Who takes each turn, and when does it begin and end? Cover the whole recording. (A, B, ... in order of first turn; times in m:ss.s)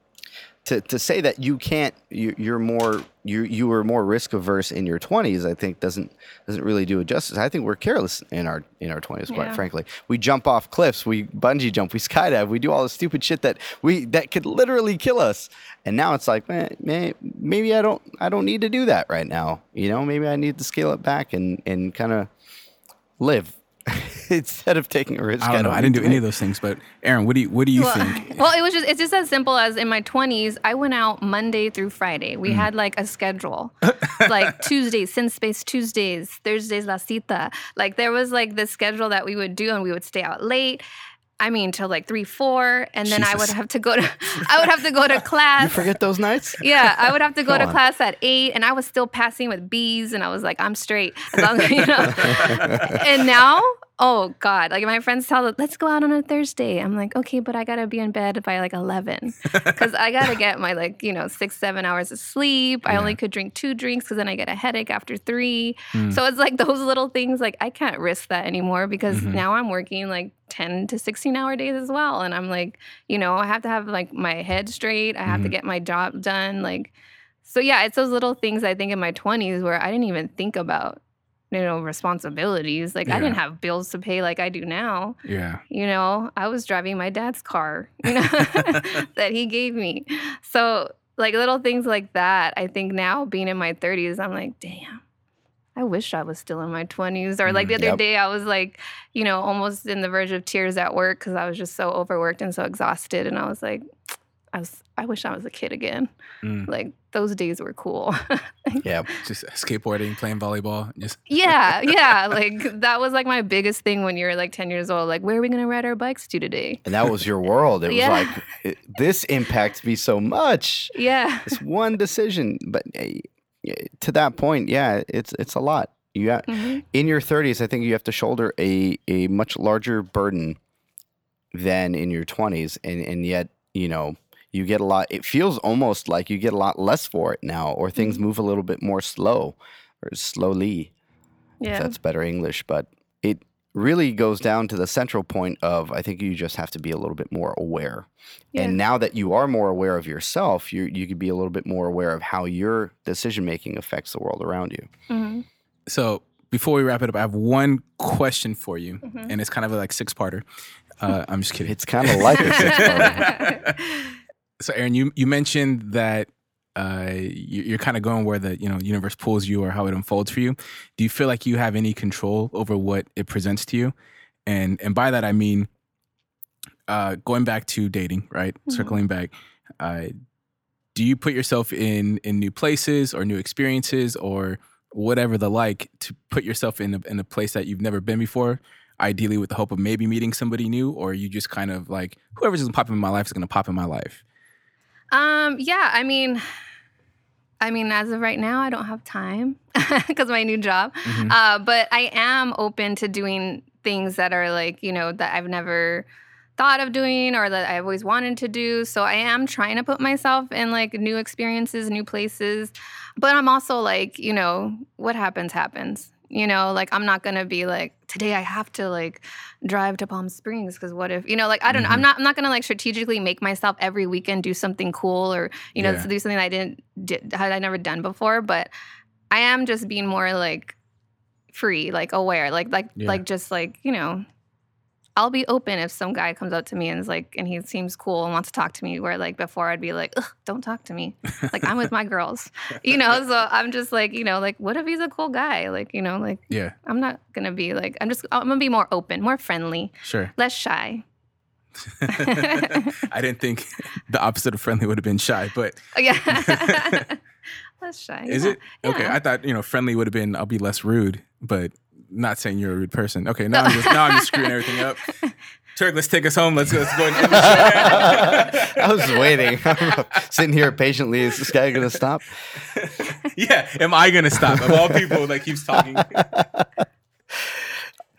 0:00.6-0:22.3 A
0:09.3-0:09.6 B
0:23.2-0:26.2 A
0:25.4-0:28.5 C
0:27.8-0:40.8 B
0:33.9-0:34.6 C
0:41.4-0:45.8 B
0:43.1-0:43.5 A
0:45.6-0:46.9 A
0:46.6-1:16.9 B
0:47.4-0:47.8 A
0:52.0-0:52.9 C
0:52.2-0:52.9 A
1:02.9-1:03.2 C
1:05.9-1:06.2 C
1:09.1-1:09.4 C
1:15.2-1:15.5 C
1:17.4-1:25.2 B
1:23.1-1:23.4 C
1:25.2-1:25.6 C
1:25.7-1:35.0 B
1:28.2-1:29.0 C
1:35.8-1:43.8 B
1:37.5-1:37.7 C
1:44.5-1:46.1 B
1:46.4-1:46.7 C
1:46.7-1:48.8 B
1:49.2-1:52.4 C
1:51.3-1:56.8 B
1:56.8-2:00.9 A
1:57.9-1:58.4 B
2:00.9-2:01.6 B
2:01.5-2:10.6 A
2:06.5-2:06.8 B
2:11.5-2:20.9 A
2:18.0-2:18.2 B
2:21.6-2:21.9 B
2:21.7-2:34.9 A
2:35.1-2:35.4 B
2:35.9-2:40.4 C
2:39.0-2:39.3 B
2:41.0-2:43.8 C
2:41.6-2:43.3 A
2:42.5-2:44.1 B
2:44.6-2:53.9 C
2:54.4-2:55.7 C
2:56.9-3:00.1 C
2:58.7-2:59.0 B
3:00.9-3:14.2 C
3:15.1-3:16.4 B
3:17.6-3:48.7 B
3:21.0-3:21.3 C
3:41.7-3:42.0 C
3:45.8-3:46.1 C
3:49.3-3:50.8 B
3:51.5-3:54.2 B
3:53.0-3:53.2 C
3:55.2-4:11.0 B
4:06.5-4:06.7 C
4:10.0-4:10.3 C
4:11.9-4:17.0 C
4:12.1-4:12.9 B
4:15.9-4:17.2 B
4:17.8-4:19.2 B
4:18.3-4:25.1 C
4:23.5-4:25.3 B
4:25.7-4:29.3 C
4:27.3-4:32.3 A
4:27.3-4:27.6 B
4:32.7-4:36.2 C
4:34.4-4:35.2 A
4:35.8-4:37.8 A